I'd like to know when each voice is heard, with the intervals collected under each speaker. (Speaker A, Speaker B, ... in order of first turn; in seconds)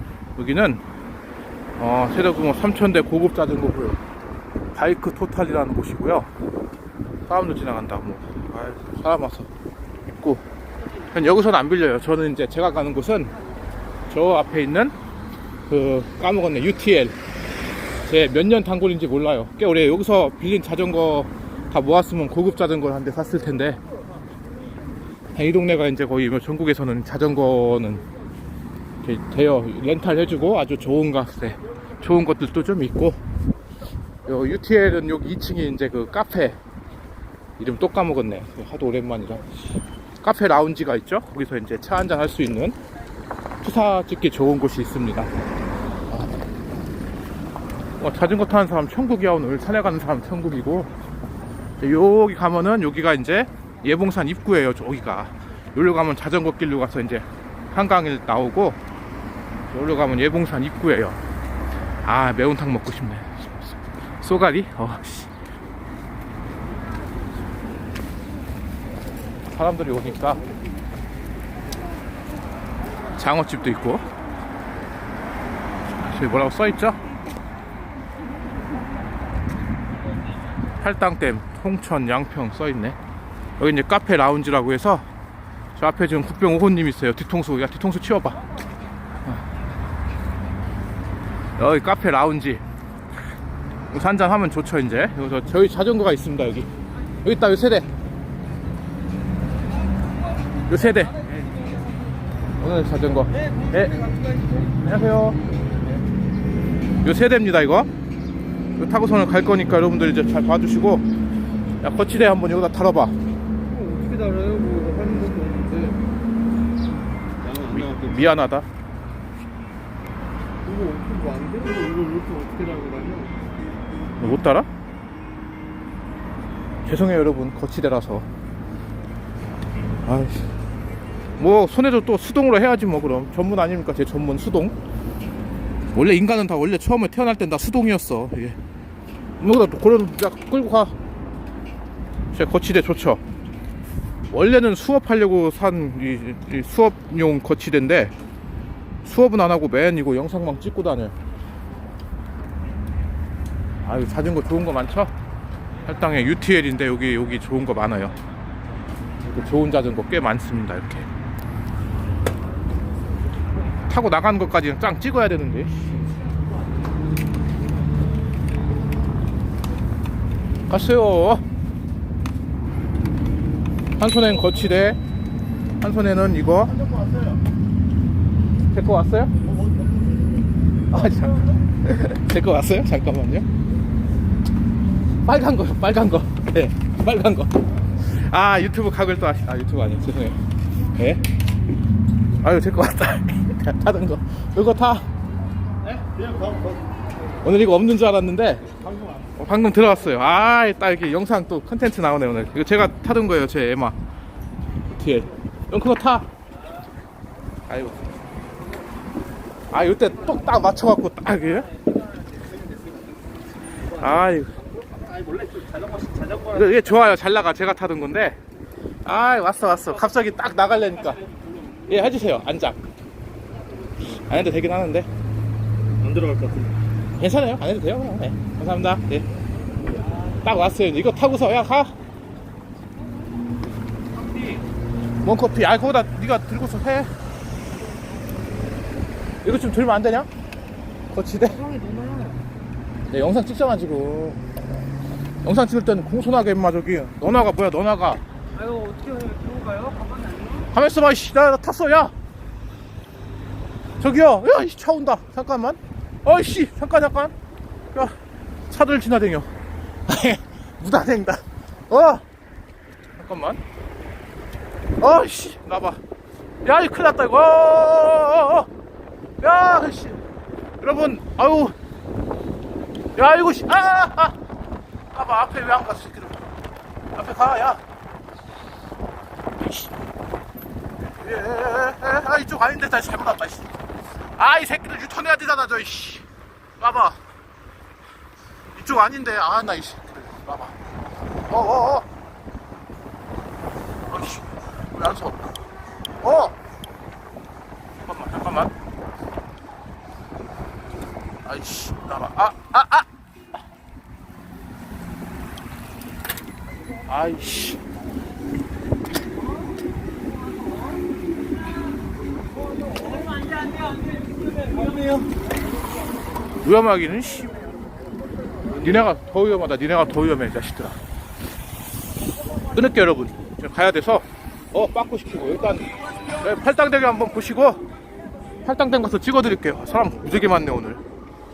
Speaker A: 0.3-0.8, 1.8-4.0, 4.7-6.3, 7.3-9.5, 10.1-10.4, 11.0-13.3, 14.1-14.9, 15.7-17.1, 18.0-23.8, 25.3-28.0, 29.0-33.2, 34.2-36.6, 37.6-42.8, 43.6-45.3, 48.0-50.9, 51.8-58.8, 59.7-61.2, 62.0-63.6, 64.2-65.3, 69.5-70.4, 73.2-74.1, 76.0-77.0, 80.7-83.0, 83.6-85.0, 85.8-88.4, 91.6-92.6, 93.9-96.7, 97.2-97.9, 100.7-101.2, 102.6-105.4, 107.0-107.9, 108.8-111.0, 111.8-113.2, 117.5-118.7, 124.2-124.7, 126.8-128.3, 130.0-130.5, 131.4-134.7, 135.9-138.6, 139.4-140.9, 142.3-143.2, 144.3-148.1, 149.0-151.1, 153.8-155.1, 155.8-158.2, 159.2-161.1, 163.9-165.9, 170.7-171.4, 174.0-175.0, 175.8-176.9, 178.7-179.3, 180.9-183.4, 185.2-190.4, 190.9-191.2, 192.4-195.1, 197.4-198.7, 199.3-203.9, 204.9-206.3, 207.7-208.0, 209.7-211.7, 213.8-214.6, 216.4-218.4, 219.0-221.3, 221.8-222.8, 224.0-225.1, 227.2-229.2, 230.4-231.9, 235.2-237.1, 239.4-240.3, 241.1-241.7, 243.1-244.4, 245.4-248.2, 250.7-252.1, 254.0-257.3, 258.7-259.5, 260.1-262.2, 263.2-263.6, 265.0-266.0, 266.6-268.7, 269.4-270.2, 270.8-271.7, 273.1-274.4, 275.1-276.4, 277.1-277.8, 279.6-279.9, 281.1-283.7, 284.4-286.2, 286.8-287.2, 288.7-290.8, 291.5-292.1, 294.1-295.6, 296.2-296.6, 298.0-298.7, 301.4-303.1, 307.1-307.8, 316.6-317.6, 318.8-321.0, 322.7-327.8, 328.6-331.0
Speaker B: 113.7-116.0, 117.4-118.2, 120.6-123.3, 195.9-196.8, 215.0-216.4, 226.0-226.7, 241.6-242.4, 248.6-250.7, 314.5-315.1